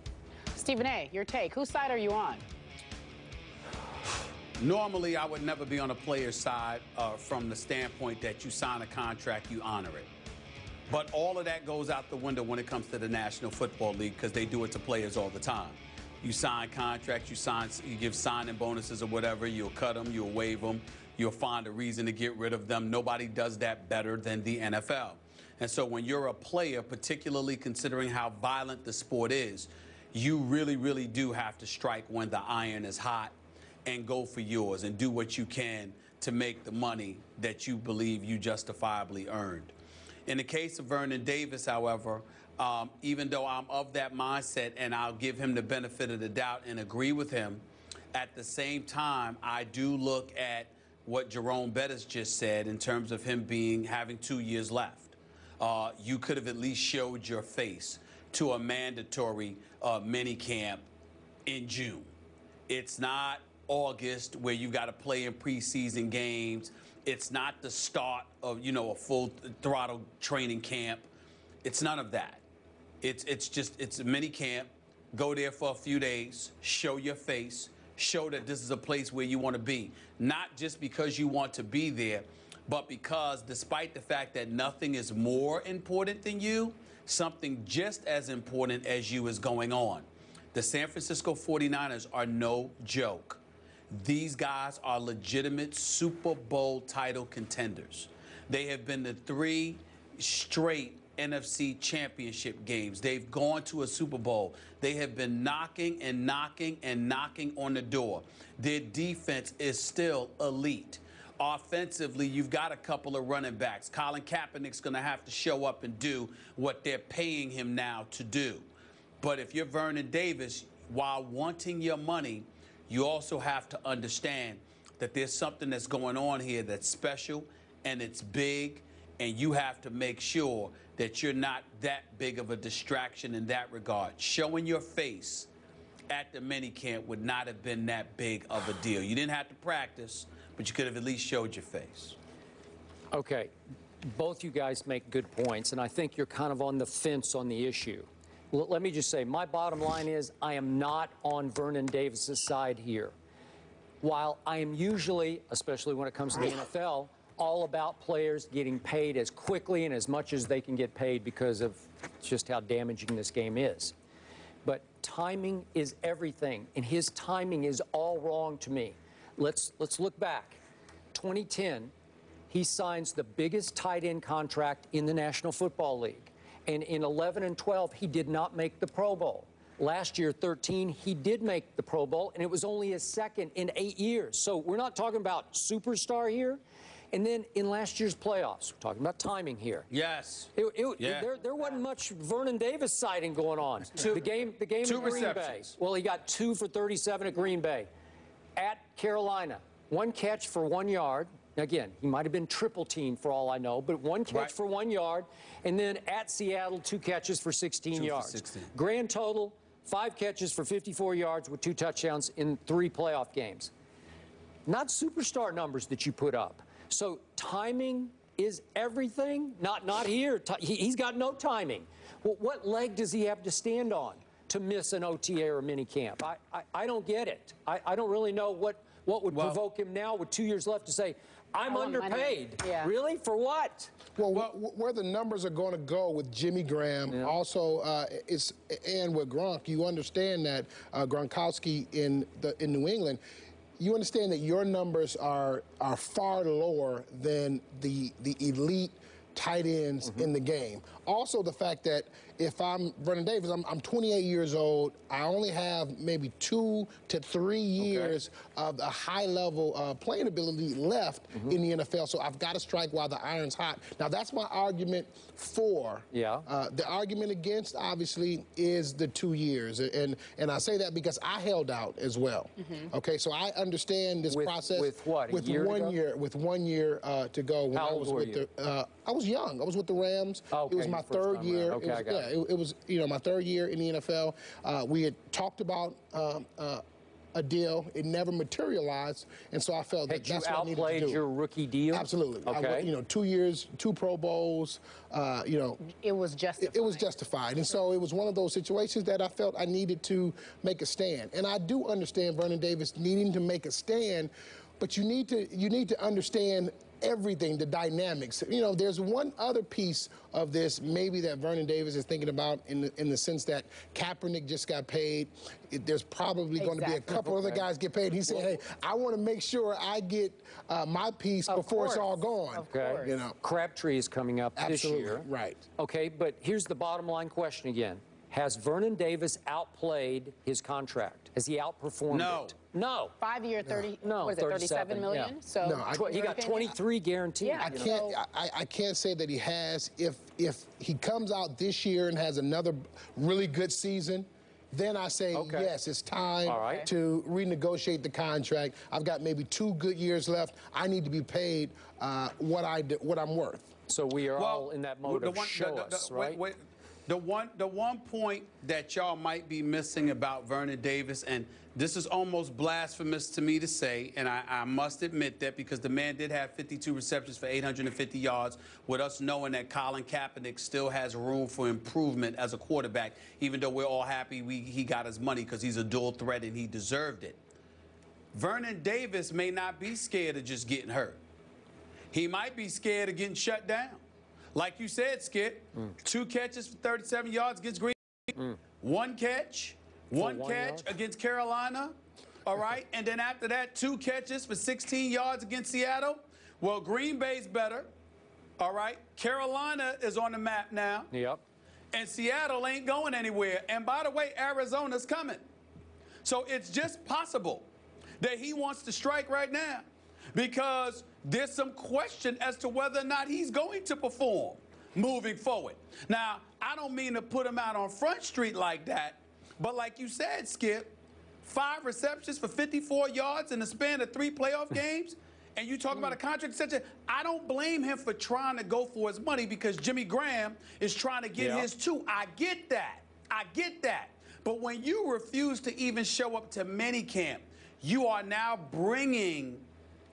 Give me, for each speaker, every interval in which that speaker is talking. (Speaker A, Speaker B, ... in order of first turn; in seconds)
Speaker A: 0.5-2.4, 231.6-232.9, 295.8-297.0, 316.5-317.3, 321.5-323.2, 333.2-336.7, 337.4-337.8, 346.5-346.9
Speaker B: 4.6-10.1, 10.9-33.3, 33.8-39.7, 40.3-60.9, 61.5-62.1, 62.7-71.1, 71.6-72.4, 73.0-118.7, 119.2-135.5, 136.1-142.2, 189.9-191.3, 194.0-194.3, 194.8-195.7, 207.9-208.7, 229.3-229.6, 332.1-332.5, 354.3-377.4, 378.3-381.2, 382.1-384.0, 384.5-397.9, 398.6-401.1, 401.9-405.4, 406.2-407.7, 408.2-439.6
Speaker C: 143.1-143.5, 144.0-153.1, 154.0-163.9, 164.6-170.6, 171.1-171.9, 172.5-186.6, 187.1-189.9, 190.6-197.9, 198.6-213.7, 214.7-233.9, 237.1-237.3, 257.8-258.1, 266.1-266.5, 274.3-276.0, 277.7-278.4, 280.5-282.3, 290.1-292.9, 317.1-317.6, 318.2-318.6, 322.7-325.3, 325.8-333.1, 334.0-335.3, 335.9-338.2, 345.3-345.7, 346.4-346.9, 353.9-356.4, 390.2-390.9, 401.1-401.4, 431.4-431.7
Speaker D: 234.2-243.2, 243.8-286.8, 287.3-291.2, 291.9-295.8, 296.6-323.4, 324.6-325.6, 333.6-333.9, 335.6-336.8, 337.6-353.7